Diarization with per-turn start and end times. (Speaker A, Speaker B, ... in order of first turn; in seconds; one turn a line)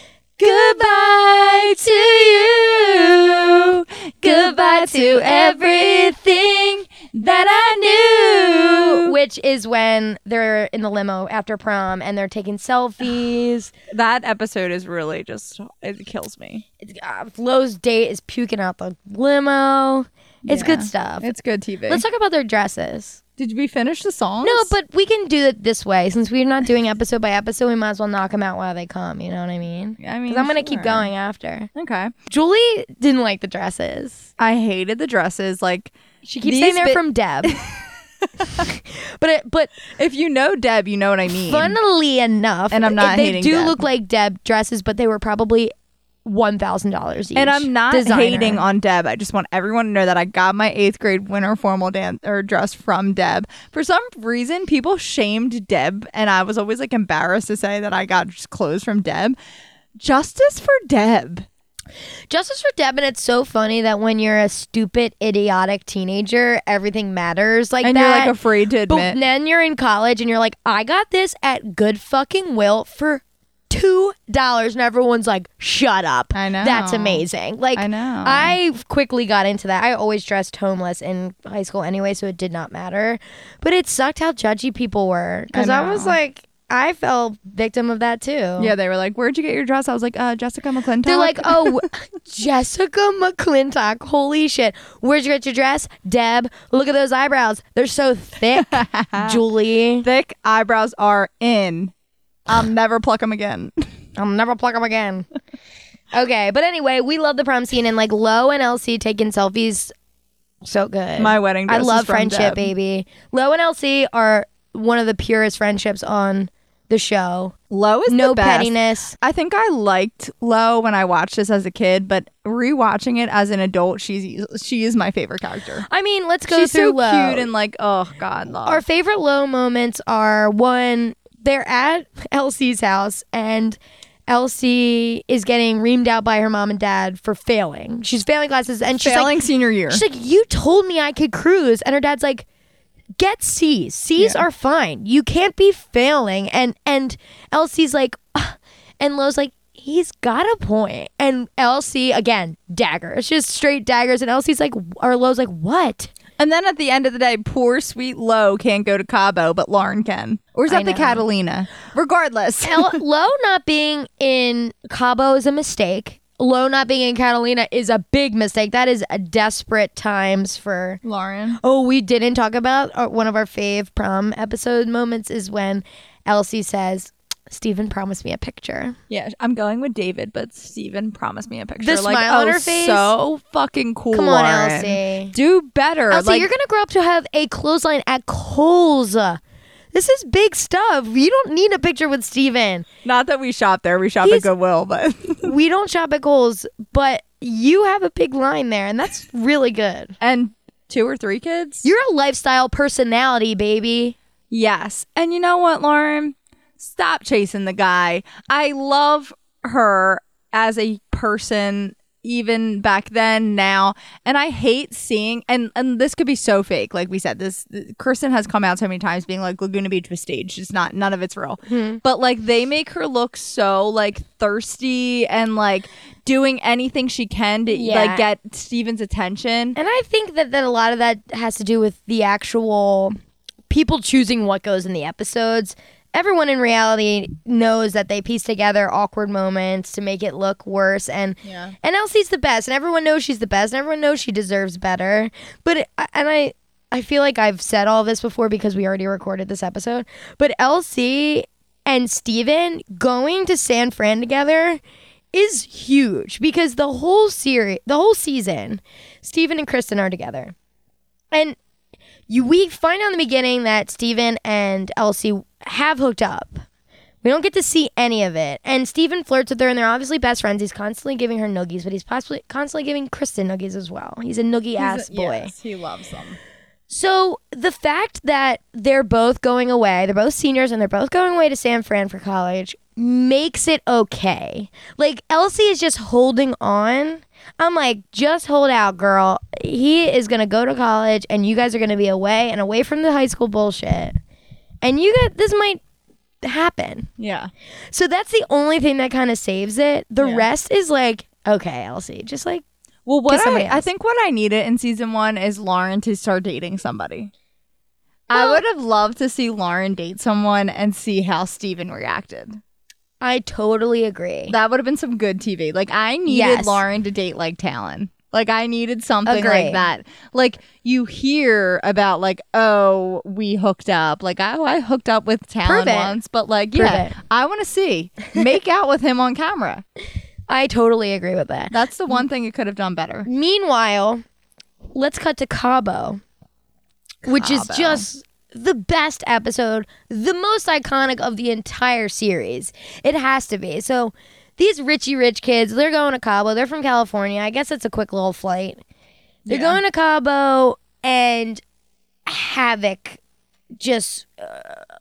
Speaker A: 0.4-9.1
Speaker B: 0.4-0.8
Speaker B: 4.2-6.2
Speaker B: 7.5-13.7
Speaker A: 13.9-16.6
Speaker B: 16.8-21.3
Speaker A: 20.4-22.0
Speaker B: 21.9-23.2
Speaker A: 23.4-24.7
Speaker B: 24.4-31.7
Speaker A: 30.0-31.1
Speaker A: 31.7-32.1
Speaker B: 32.3-34.3
Speaker A: 34.4-38.7
Speaker B: 36.2-37.6
Speaker B: 38.5-39.7
Speaker A: 39.9-41.8
Speaker B: 41.4-45.7
Speaker A: 42.7-43.8
Speaker B: 46.2-48.6
Speaker A: 47.3-59.4
Speaker A: 60.0-61.5
Speaker B: 62.3-68.3
Speaker A: 67.8-69.2
Speaker B: 68.9-88.7
Speaker A: 76.3-78.6
Speaker A: 85.5-86.2
Speaker A: 88.6-91.8
Speaker B: 91.0-100.0
Speaker A: 98.5-99.4
Speaker A: 100.0-101.9
Speaker A: 102.5-103.8
Speaker B: 104.2-105.3
Speaker B: 106.1-109.9
Speaker B: 110.6-117.5
Speaker A: 111.2-112.7
Speaker A: 117.7-125.8
Speaker B: 118.1-119.2
Speaker B: 125.9-127.5
Speaker A: 126.5-128.8
Speaker B: 128.6-139.3
Speaker A: 138.9-140.0
Speaker B: 139.9-142.4
Speaker B: 143.2-156.1
Speaker A: 144.2-144.4
Speaker A: 156.4-163.0
Speaker B: 160.7-161.2
Speaker B: 162.6-171.0
Speaker A: 171.0-171.6
Speaker B: 171.6-179.0
Speaker A: 179.1-186.5
Speaker B: 181.8-183.1
Speaker B: 184.1-185.3
Speaker B: 186.1-189.4
Speaker B: 189.9-192.8
Speaker A: 193.0-195.5
Speaker B: 194.2-194.5
Speaker B: 195.4-200.1
Speaker A: 200.2-201.9
Speaker B: 201.8-204.2
Speaker A: 204.5-229.8
Speaker B: 221.7-222.0
Speaker B: 227.7-228.2
Speaker B: 229.8-233.2
Speaker B: 233.7-254.8
Speaker A: 241.4-241.7
Speaker B: 255.3-260.5
Speaker B: 261.3-261.6
Speaker B: 262.3-266.6
Speaker B: 267.2-275.5
Speaker A: 274.8-276.4
Speaker B: 276.9-294.1
Speaker B: 294.8-295.8
Speaker B: 296.4-297.1
Speaker A: 297.2-297.5
Speaker B: 297.9-302.6
Speaker A: 300.2-300.4
Speaker A: 303.1-307.3
Speaker B: 303.3-303.9
Speaker A: 308.3-312.6
Speaker B: 308.3-308.6
Speaker B: 313.2-314.5
Speaker A: 314.5-329.8
Speaker B: 316.3-316.8
Speaker B: 319.2-319.8
Speaker B: 325.6-326.2
Speaker B: 326.7-327.1
Speaker B: 330.5-331.8
Speaker A: 331.7-333.3
Speaker B: 333.2-334.2
Speaker B: 334.9-336.2
Speaker B: 337.2-348.8
Speaker A: 337.3-338.1
Speaker A: 349.5-349.8
Speaker B: 349.5-351.6
Speaker B: 352.2-353.2
Speaker B: 353.7-354.9